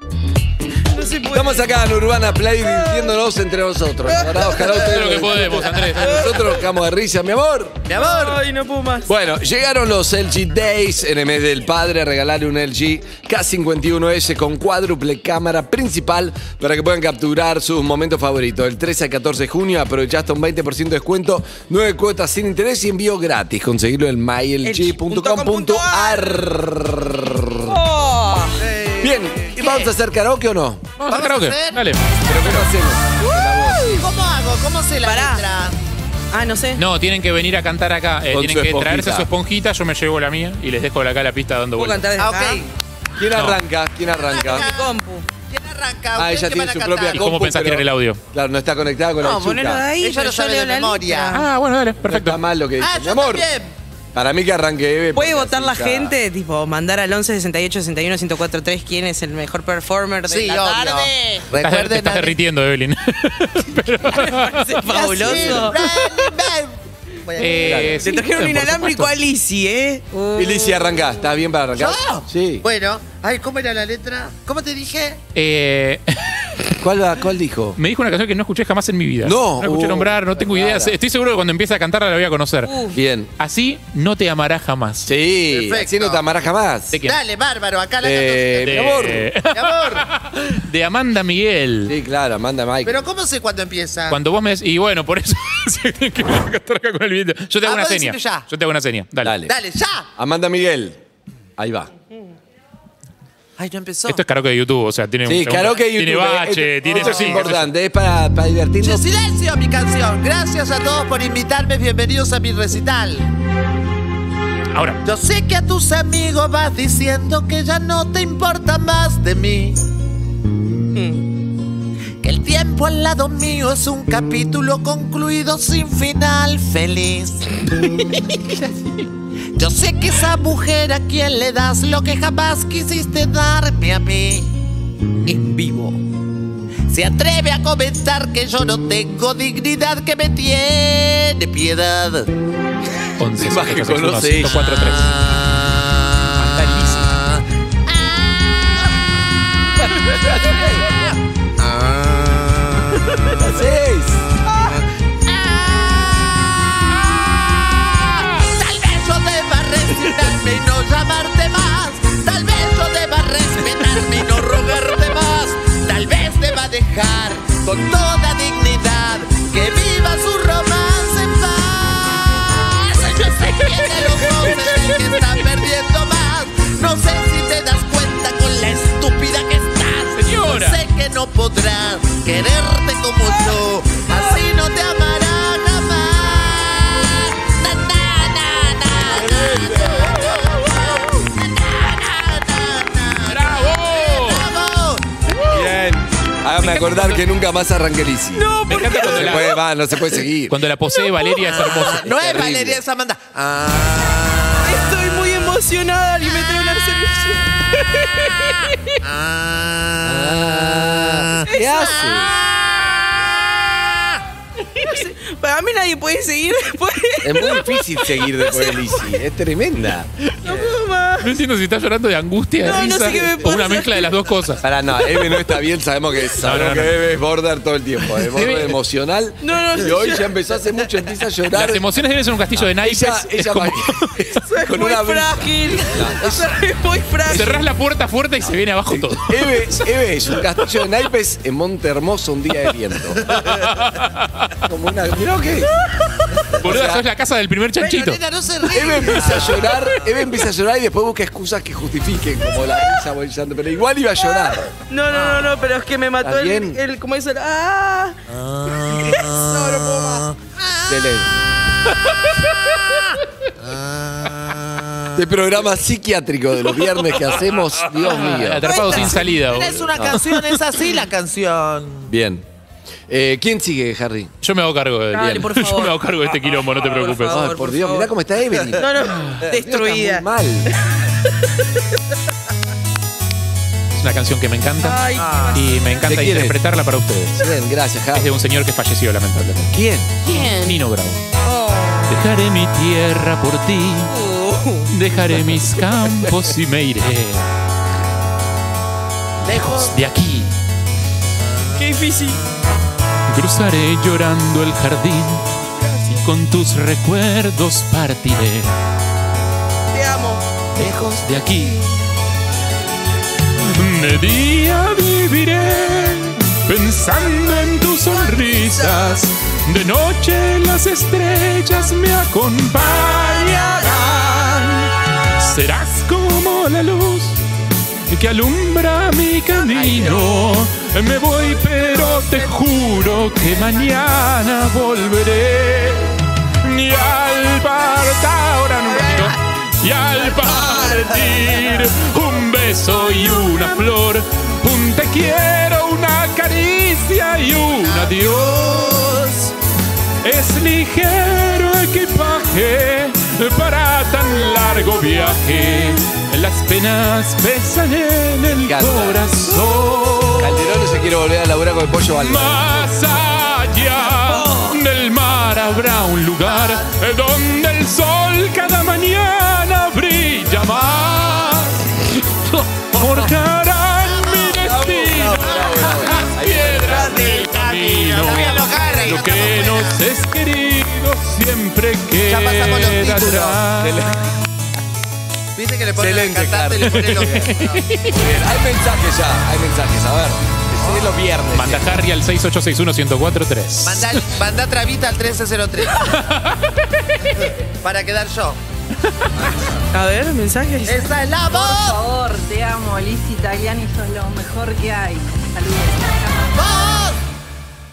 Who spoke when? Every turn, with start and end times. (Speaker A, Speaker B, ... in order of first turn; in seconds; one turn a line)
Speaker A: 0.9-1.8
Speaker B: 1.3-7.8
Speaker A: 2.6-3.1
Speaker A: 4.0-5.4
Speaker C: 4.5-6.3
Speaker A: 6.0-6.4
Speaker D: 7.9-8.4
Speaker A: 8.0-9.1
Speaker B: 9.1-27.8
Speaker A: 24.6-26.5
Speaker A: 27.6-28.6
Speaker D: 28.6-29.9
Speaker B: 29.0-30.9
Speaker C: 31.0-32.6
Speaker D: 31.1-31.8
Speaker B: 32.2-34.0
Speaker A: 33.2-34.0
Speaker D: 33.9-35.8
Speaker A: 35.0-35.5
Speaker A: 36.3-36.8
Speaker C: 36.8-42.0
Speaker B: 38.3-39.3
Speaker A: 41.8-42.7
Speaker D: 42.2-42.6
Speaker B: 43.2-44.7
Speaker C: 43.3-43.6
Speaker D: 44.2-44.9
Speaker A: 44.4-45.2
Speaker D: 45.5-47.2
Speaker B: 46.1-49.8
Speaker C: 47.1-48.2
Speaker A: 49.2-51.4
Speaker D: 50.0-51.4
Speaker C: 51.3-52.4
Speaker B: 52.0-53.5
Speaker D: 52.8-53.7
Speaker B: 54.1-56.1
Speaker A: 55.1-61.5
Speaker D: 60.2-62.4
Speaker C: 61.6-64.7
Speaker A: 64.1-65.8
Speaker D: 64.8-66.7
Speaker B: 65.2-65.6
Speaker D: 67.2-68.0
Speaker C: 67.4-69.1
Speaker B: 67.6-68.0
Speaker A: 68.0-70.0
Speaker D: 70.1-70.9
Speaker B: 70.3-72.6
Speaker D: 71.7-75.2
Speaker C: 75.3-76.5
Speaker B: 76.8-77.8
Speaker C: 77.8-82.7
Speaker B: 79.2-81.0
Speaker A: 82.6-83.0
Speaker B: 82.9-83.3
Speaker C: 83.4-85.1
Speaker B: 85.0-86.9
Speaker D: 85.5-86.3
Speaker C: 86.9-87.2
Speaker D: 87.0-90.0
Speaker B: 88.0-89.3
Speaker C: 88.6-91.9
Speaker B: 91.9-93.0
Speaker D: 92.8-94.2
Speaker C: 94.1-99.3
Speaker D: 97.6-98.5
Speaker B: 99.2-99.5
Speaker D: 99.5-100.1
Speaker B: 100.2-101.0
Speaker B: 101.6-101.9
Speaker D: 103.6-104.2
Speaker C: 104.1-107.7
Speaker B: 105.2-109.0
Speaker D: 106.9-107.5
Speaker D: 108.8-113.3
Speaker C: 114.7-115.0
Speaker D: 115.0-119.8
Speaker A: 120.9-121.2
Speaker D: 122.2-127.5
Speaker D: 129.6-134.5
Speaker A: 135.2-136.0
Speaker D: 136.9-142.3
Speaker C: 143.2-145.1
Speaker B: 143.4-144.6
Speaker D: 144.7-149.0
Speaker C: 146.4-147.1
Speaker D: 149.7-153.5
Speaker B: 149.9-150.8
Speaker B: 153.4-154.2
Speaker A: 154.4-154.8
Speaker D: 154.7-195.3
Speaker A: 174.0-174.7
Speaker C: 180.1-180.8
Speaker A: 183.2-184.4
Speaker B: 189.1-190.1
Speaker C: 193.3-194.5
Speaker B: 195.5-200.6
Speaker C: 196.6-197.2
Speaker A: 198.3-199.6
Speaker C: 198.7-199.6
Speaker C: 200.5-202.1
Speaker D: 201.4-205.0
Speaker B: 201.9-202.8
Speaker A: 204.6-209.0
Speaker D: 209.0-214.2
Speaker B: 210.1-212.3
Speaker A: 211.4-212.2
Speaker A: 214.6-219.0
Speaker B: 217.2-220.5
Speaker A: 220.4-221.3
Speaker C: 221.2-224.6
Speaker A: 222.6-224.2
Speaker B: 224.6-231.8
Speaker A: 224.9-225.6
Speaker A: 226.2-226.5
Speaker C: 226.4-227.0
Speaker C: 228.3-228.8
Speaker A: 229.4-230.3
Speaker C: 231.5-234.3
Speaker B: 232.5-236.5
Speaker A: 234.4-237.6
Speaker B: 237.2-237.6
Speaker C: 237.3-239.4
Speaker B: 238.9-243.5
Speaker C: 243.4-244.5
Speaker B: 244.6-245.7
Speaker B: 246.6-247.0
Speaker C: 246.6-248.2
Speaker D: 247.8-249.7
Speaker B: 248.7-254.7
Speaker A: 249.2-249.9
Speaker A: 254.9-260.3
Speaker B: 256.2-256.8
Speaker D: 258.5-259.4
Speaker D: 260.6-261.2
Speaker B: 260.9-261.3
Speaker D: 261.9-264.9
Speaker B: 265.1-268.6
Speaker C: 267.9-270.7
Speaker A: 268.6-269.2
Speaker D: 268.7-272.1
Speaker B: 269.9-270.2
Speaker B: 272.1-272.4
Speaker B: 273.1-274.3
Speaker C: 274.4-277.4
Speaker A: 275.1-278.1
Speaker B: 277.3-278.9
Speaker A: 278.7-282.0
Speaker B: 279.4-280.7
Speaker C: 283.9-287.5
Speaker A: 284.8-285.7
Speaker D: 285.4-285.6
Speaker B: 286.0-286.6
Speaker B: 287.4-288.3
Speaker C: 288.1-289.7
Speaker B: 289.7-290.1
Speaker A: 290.2-290.8
Speaker C: 290.3-291.2
Speaker A: 291.4-292.2
Speaker C: 292.1-294.1
Speaker A: 294.0-294.9
Speaker C: 294.9-297.5
Speaker D: 299.4-299.9
Speaker C: 299.4-300.5
Speaker A: 301.7-302.4
Speaker C: 303.3-305.4
Speaker A: 305.8-306.2
Speaker C: 306.1-308.8
Speaker A: 309.9-310.4
Speaker B: 310.8-311.2
Speaker C: 310.8-311.8
Speaker C: 313.7-327.4
Speaker A: 317.8-319.2
Speaker A: 322.9-324.8
Speaker C: 328.1-349.1
Speaker A: 329.8-330.2
Speaker A: 331.7-332.6
Speaker A: 338.9-339.4
Speaker A: 340.2-341.9
Speaker A: 348.1-349.5
Speaker C: 350.2-360.7
Speaker B: 358.5-359.3
Speaker B: 360.4-362.8
Speaker C: 362.1-384.0
Speaker A: 364.0-364.8
Speaker D: 366.4-366.9
Speaker D: 373.9-376.2
Speaker B: 374.6-377.2
Speaker D: 376.9-380.0
Speaker D: 382.2-383.6
Speaker B: 383.8-384.3
Speaker D: 385.6-387.9
Speaker B: 386.0-387.5
Speaker C: 386.8-388.2
Speaker B: 388.1-392.0
Speaker D: 390.8-391.1
Speaker C: 391.5-394.2
Speaker D: 393.8-396.2
Speaker C: 396.1-396.6
Speaker D: 397.7-398.6
Speaker A: 399.9-401.0
Speaker D: 400.9-402.1
Speaker E: 401.5-406.6
Speaker D: 406.5-407.2